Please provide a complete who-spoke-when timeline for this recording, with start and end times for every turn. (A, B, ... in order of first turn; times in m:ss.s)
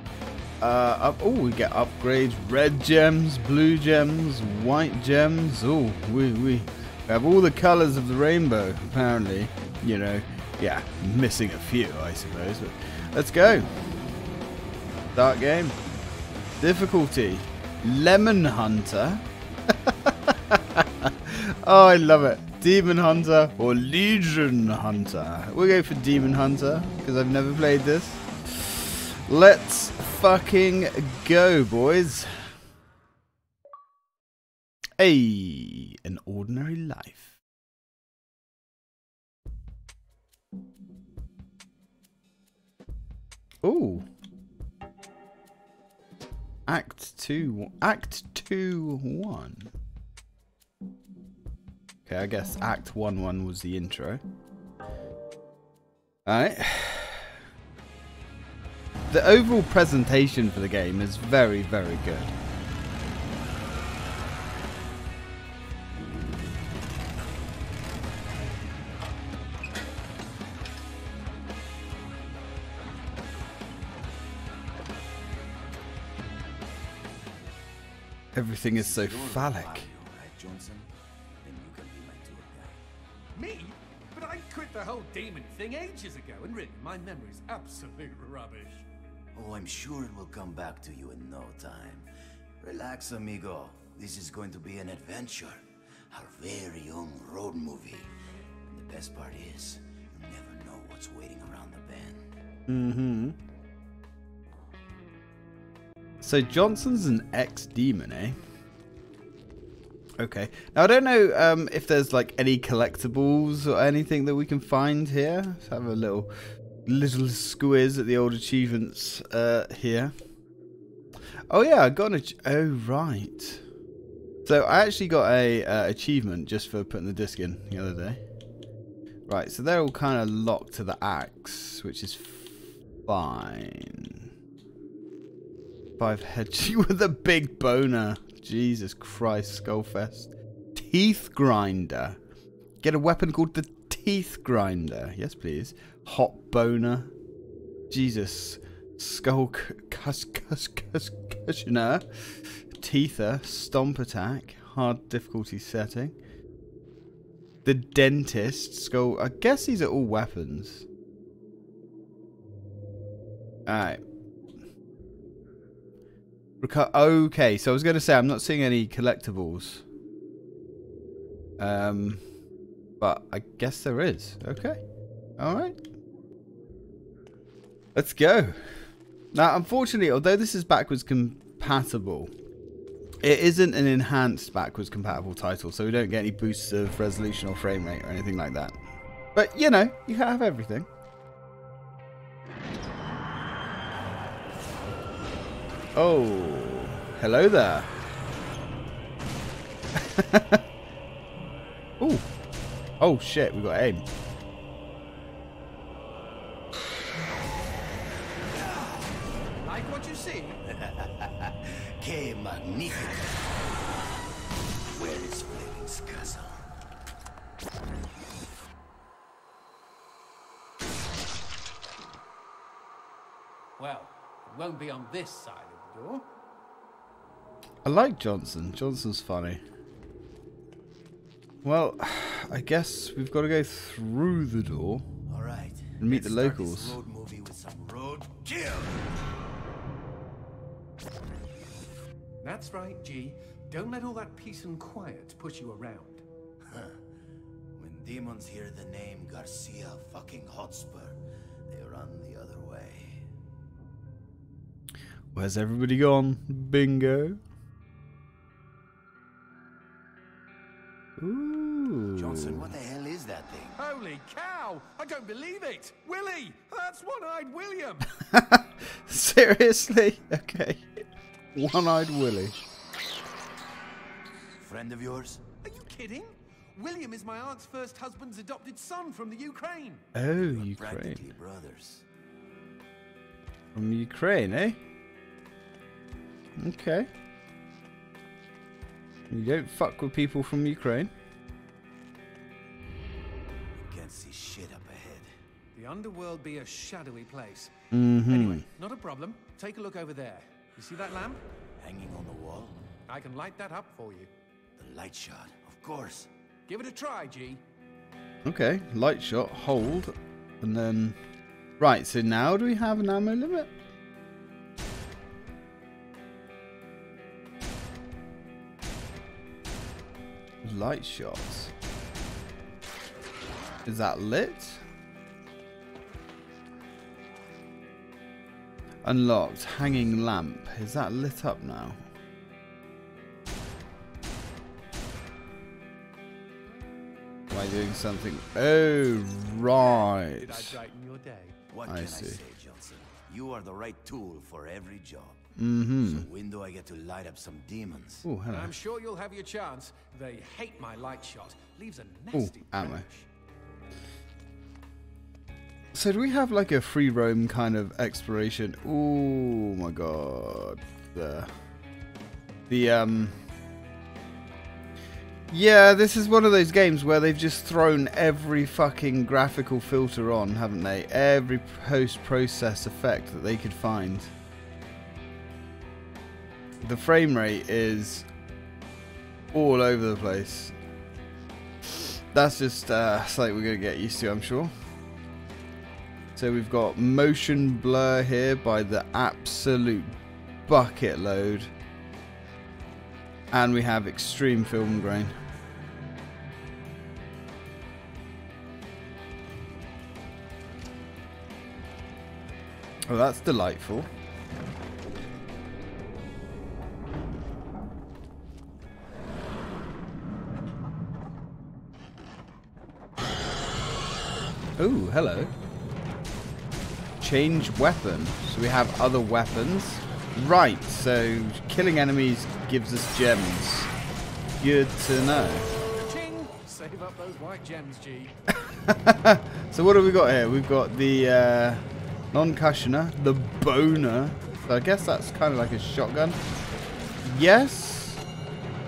0:00.6-0:13.8 A
0:15.1-0:15.8 A
0:16.6-0:32.5 A
0:35.0-0:37.4 A
0:43.6-0:44.1 A
0:46.7-0:49.7 A
0:52.0-0:54.2 A
0:56.2-0:57.4 A
0:59.1-1:02.4 A
1:18.3-1:19.9 A
1:18.7-1:20.9 B
1:21.4-1:22.8 B
1:23.3-1:28.8 C
1:29.4-1:32.1 B
1:32.6-1:38.1 B
1:38.7-1:42.3 B
1:42.7-1:43.4 A
1:46.2-1:48.4 A
1:50.2-1:56.3 A
1:56.9-2:00.1 A
2:01.5-2:03.6 A
2:04.4-2:08.2 A
2:09.3-2:14.3 A
2:16.0-2:22.2 A
2:22.8-2:27.1 A
2:27.9-2:36.2 A
2:37.6-2:40.9 A
2:43.6-2:44.0 A
2:46.6-2:49.8 A
2:51.6-2:52.2 A
2:53.0-2:54.8 A
2:55.4-2:55.8 A
2:57.9-2:58.6 A
2:59.3-3:02.3 A
3:03.2-3:08.8 A
3:09.4-3:10.9 A
3:15.9-3:17.9 A
3:19.9-3:20.6 A
3:22.0-3:22.3 A
3:23.0-3:24.0 A
3:29.6-3:30.6 C
3:30.7-3:33.6 B
3:34.9-3:36.6 B
3:43.8-3:46.3 C
3:47.8-3:49.6 A
3:51.6-3:55.1 A
3:55.3-3:59.1 B
3:56.0-3:57.0 A
4:02.4-4:06.2 C
4:06.7-4:07.0 B
4:07.8-4:13.2 B
4:15.3-4:17.4 A
4:21.2-4:22.7 A
4:22.1-4:23.8 B
4:23.8-4:28.1 C
4:28.2-4:32.6 A
4:34.6-4:35.4 B
4:35.6-4:40.1 C
4:40.1-4:41.2 A
4:40.4-4:42.0 B
4:43.7-4:44.8 A
4:46.6-4:47.1 A
4:49.3-4:51.1 A
4:53.8-4:55.3 B
4:55.8-5:01.4 C
4:57.9-4:58.6 A
5:01.8-5:02.8 B
5:03.1-5:04.3 C
5:04.8-5:06.3 B
5:06.7-5:07.6 C
5:08.4-5:11.2 A
5:11.8-5:13.7 A
5:20.6-5:21.7 A
5:23.8-5:24.8 A
5:29.0-5:32.0 A
5:37.5-5:40.8 A
5:39.7-5:41.6 C
5:41.7-5:45.4 B
5:41.9-5:42.4 A
5:45.6-5:46.3 A
5:46.0-5:48.3 B
5:48.2-5:48.8 A
5:48.5-5:53.3 C
5:52.3-5:53.0 A
5:55.9-6:01.5 A
6:02.7-6:03.4 A
6:05.5-6:14.3 A
6:16.8-6:18.3 A
6:19.5-6:20.7 A
6:21.9-6:24.7 A
6:26.4-6:30.2 A
6:30.7-6:31.7 A
6:33.5-6:35.4 A
6:43.1-6:44.1 A
6:54.8-6:55.5 A
6:57.2-7:03.9 A
7:04.6-7:05.7 A
7:06.0-7:08.4 C
7:08.6-7:16.4 A
7:17.2-7:18.2 A